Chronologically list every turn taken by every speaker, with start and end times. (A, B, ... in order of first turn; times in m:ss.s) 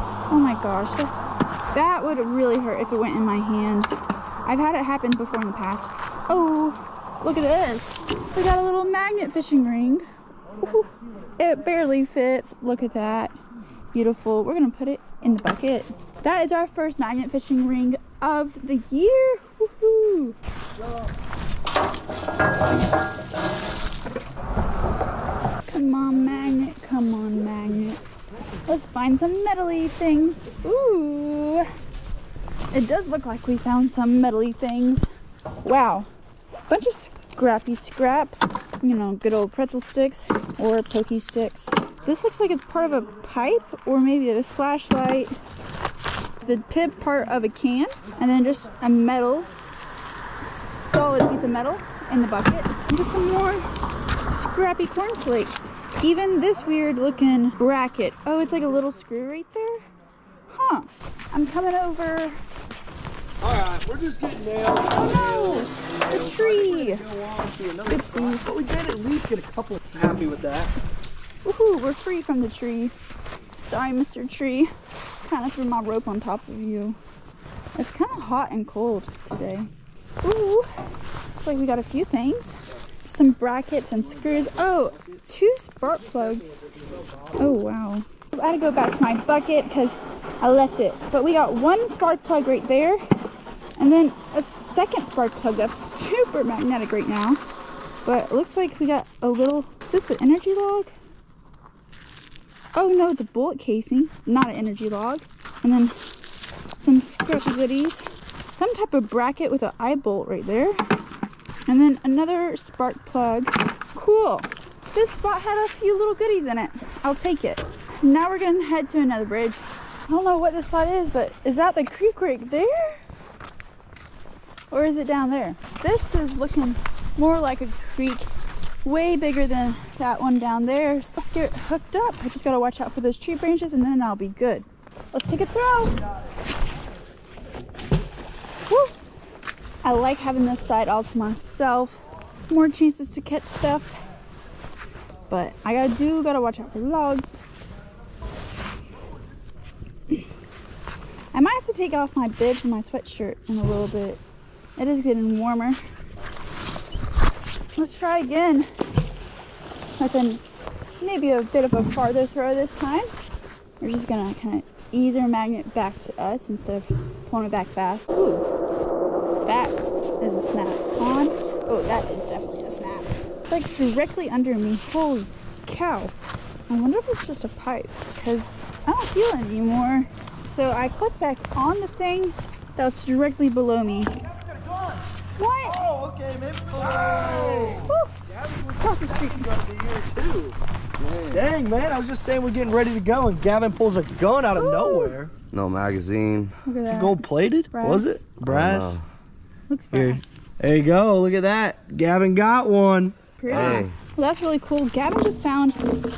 0:00.3-0:01.1 A
0:01.7-0:03.9 A
0:04.4-0:10.0 A
0:10.6-0:13.3 A
0:13.9-0:20.4 A
0:25.7-0:28.0 A
0:28.6-0:31.7 A
0:32.7-0:35.1 A
0:35.6-0:36.1 A
0:36.7-0:45.4 A
0:46.4-0:49.5 A
0:50.4-0:53.6 A
0:54.3-0:59.9 A
1:00.5-1:02.4 A
1:03.4-1:10.7 B
1:04.9-1:07.0 A
1:07.9-1:08.5 A
1:11.4-1:12.9 A
1:13.6-1:14.7 A
1:15.2-1:17.0 A
1:17.8-1:19.7 A
1:20.2-1:20.7 A
1:21.3-1:26.6 A
1:24.0-1:25.2 B
1:25.8-1:27.6 B
1:27.4-1:33.0 A
1:33.8-1:37.4 A
1:38.0-1:40.9 A
1:42.7-1:46.0 A
1:46.8-1:48.0 A
1:48.6-1:50.8 A
1:51.7-2:03.0 A
2:04.7-2:08.3 A
2:08.8-2:16.0 A
2:18.7-2:18.9 A
2:19.8-2:24.0 A
2:25.3-2:27.4 A
2:31.3-2:34.2 A
2:34.8-2:35.8 A
2:37.8-2:38.7 A
2:40.0-2:40.4 A
2:41.0-2:43.1 A
2:43.8-2:48.4 A
2:49.5-2:56.1 A
2:56.7-3:04.1 A
3:04.1-3:05.1 B
3:05.4-3:05.9 A
3:05.6-3:10.6 B
3:07.2-3:08.1 A
3:07.5-3:07.7 C
3:08.8-3:09.5 A
3:11.0-3:11.4 C
3:11.3-3:15.3 B
3:14.5-3:15.2 A
3:15.5-3:16.5 C
3:16.6-3:18.2 A
3:16.8-3:19.0 B
3:18.4-3:19.0 C
3:19.7-3:20.3 A
3:19.9-3:23.8 B
3:23.3-3:25.8 A
3:23.5-3:23.9 C